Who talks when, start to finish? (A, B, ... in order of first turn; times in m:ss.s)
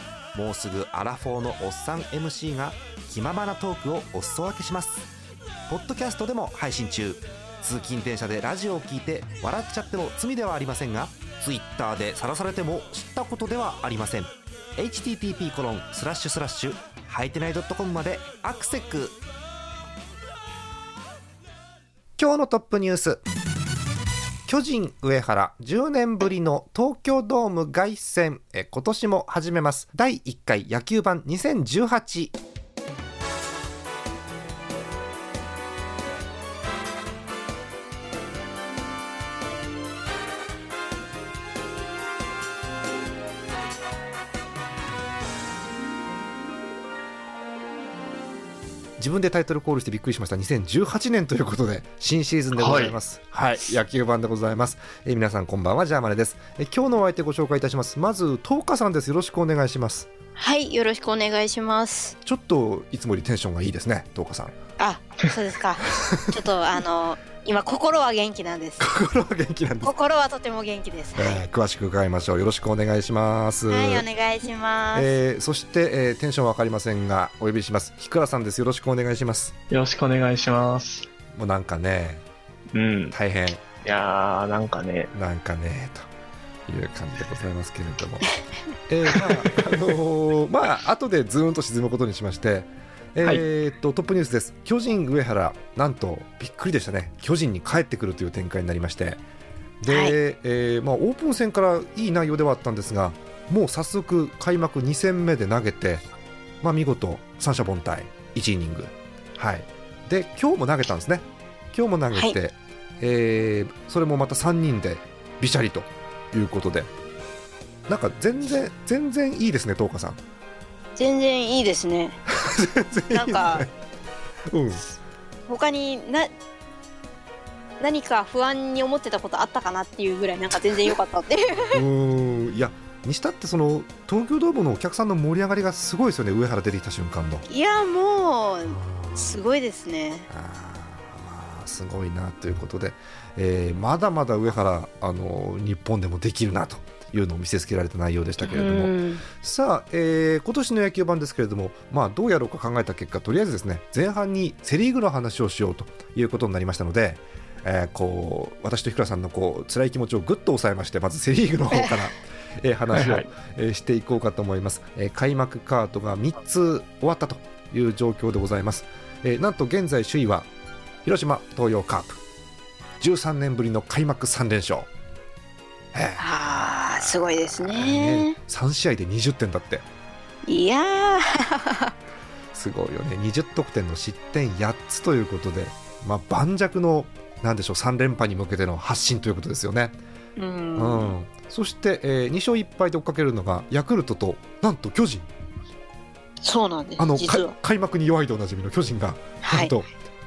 0:00.3-0:05.1 A
0:05.7-0:19.2 A
0:22.2-0:23.2 A
0:24.5-0:32.3 A
0:49.0-1:00.1 A
0:52.6-0:53.0 B
1:00.4-1:02.2 C
1:02.2-1:04.5 A
1:04.8-1:08.8 C
1:05.8-1:06.4 A
1:08.8-1:09.9 A
1:09.8-1:11.4 C
1:11.2-1:14.0 A
1:13.7-1:15.1 C
1:14.9-1:19.5 A
1:19.7-1:21.1 B
1:21.3-1:22.2 A
1:22.7-1:23.2 B
1:23.1-1:23.6 A
1:23.8-1:25.1 B
1:25.1-1:26.1 A
1:26.7-1:28.3 A
1:28.9-1:39.2 A
1:29.2-1:29.5 B
1:39.8-1:46.0 A
1:39.9-1:40.2 C
1:46.6-1:56.9 A
1:52.1-1:52.4 C
1:57.9-2:00.2 A
2:01.0-2:02.2 C
2:02.3-2:03.7 A
2:03.1-2:03.6 C
2:04.5-2:04.9 A
2:05.5-2:06.3 C
2:07.8-2:11.8 C
2:11.7-2:17.5 A
2:17.5-2:20.3 C
2:18.6-2:19.4 A
2:20.3-2:50.5 A
2:28.4-2:29.2 C
2:42.9-2:43.3 B
2:51.0-2:52.2 A
2:53.0-2:54.9 A
2:55.9-2:56.3 A
2:56.2-2:58.4 C
2:56.9-2:59.8 A
3:00.5-3:01.9 C
3:02.5-3:10.0 A
3:10.4-3:11.1 C
3:10.8-3:15.3 A
3:16.4-3:17.5 C
3:17.0-3:19.9 A
3:19.4-3:19.7 C